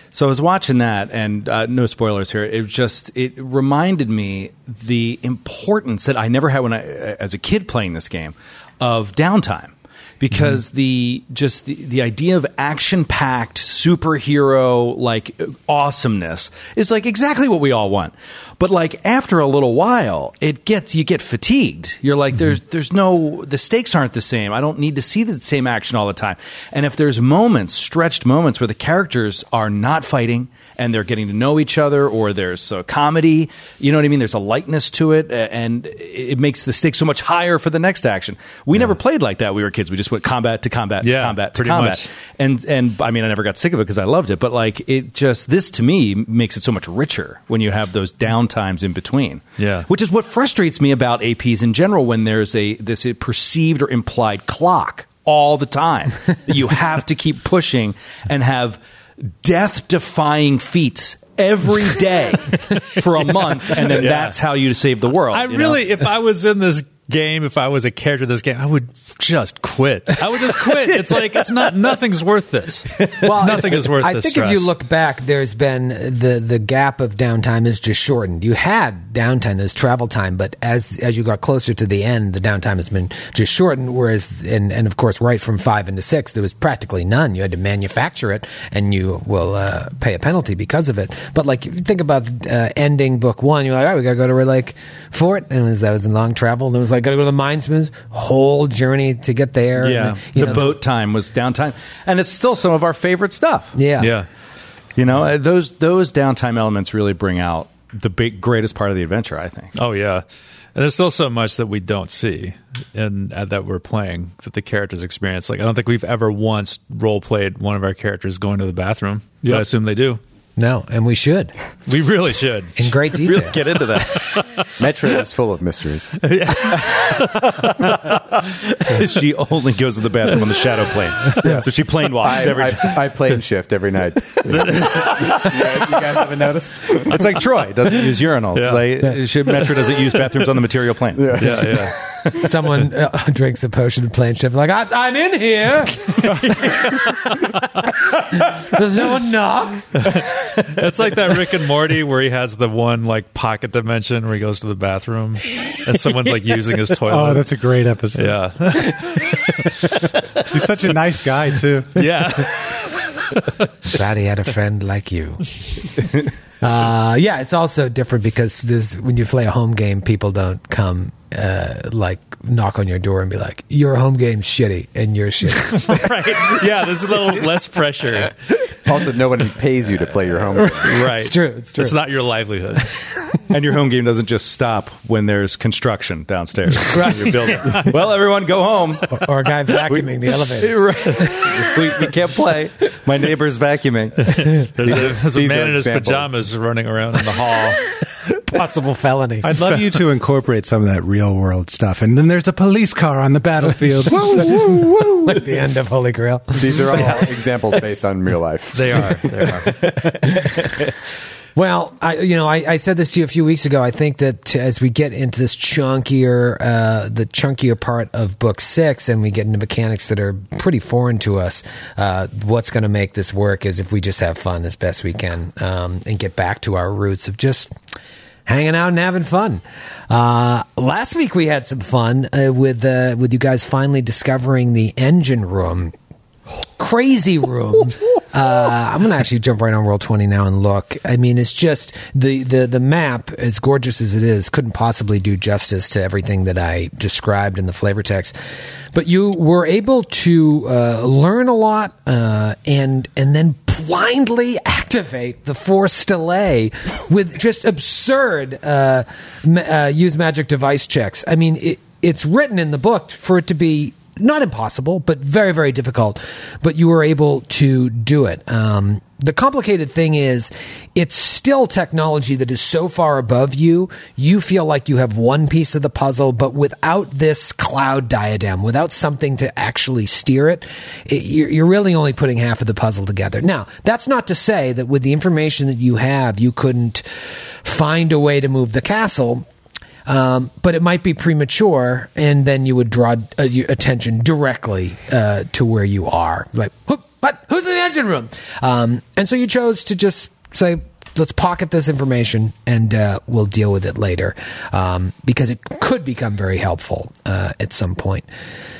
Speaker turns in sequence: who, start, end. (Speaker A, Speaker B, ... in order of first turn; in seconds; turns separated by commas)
Speaker A: 0.1-65.8, Speaker B: 41.0-42.1, Speaker B: 49.6-49.9, Speaker B: 63.7-64.4, Speaker B: 65.3-74.7, Speaker C: 73.1-100.7, Speaker A: 99.8-103.8, Speaker C: 103.7-104.1, Speaker B: 104.0-104.3, Speaker A: 105.0-109.7, Speaker B: 109.7-110.2, Speaker B: 110.7-120.2, Speaker C: 120.6-121.5, Speaker B: 121.9-122.9, Speaker C: 122.8-123.6, Speaker A: 123.2-124.3, Speaker B: 124.1-124.7, Speaker D: 124.8-126.2, Speaker B: 126.2-128.2, Speaker A: 126.6-127.8, Speaker A: 128.8-133.1, Speaker B: 131.3-131.7, Speaker D: 132.2-137.3, Speaker B: 134.5-135.5, Speaker A: 137.1-141.5, Speaker B: 138.5-139.0, Speaker D: 141.2-141.9, Speaker B: 141.4-141.9, Speaker C: 142.4-146.9, Speaker B: 146.3-147.6, Speaker C: 148.4-149.9, Speaker B: 150.0-157.5, Speaker E: 157.1-158.4, Speaker B: 158.1-160.0, Speaker E: 160.4-162.1, Speaker B: 161.9-163.9, Speaker C: 163.9-165.5, Speaker C: 166.6-176.0, Speaker B: 175.6-178.3, Speaker D: 178.8-180.9, Speaker C: 180.8-182.0, Speaker A: 180.8-181.3, Speaker B: 180.9-182.9, Speaker A: 183.5-194.3, Speaker D: 187.1-187.9, Speaker B: 187.5-187.9, Speaker C: 189.2-191.2, Speaker B: 194.2-197.8, Speaker D: 194.8-196.3, Speaker C: 198.5-199.6, Speaker E: 199.4-204.8, Speaker C: 204.2-207.2, Speaker D: 206.5-209.6, Speaker B: 208.7-209.7, Speaker C: 210.2-210.5, Speaker C: 211.6-227.7, Speaker C: 228.5-235.9, Speaker C: 236.8-248.3, Speaker C: 248.9-289.4, Speaker C: 290.1-308.2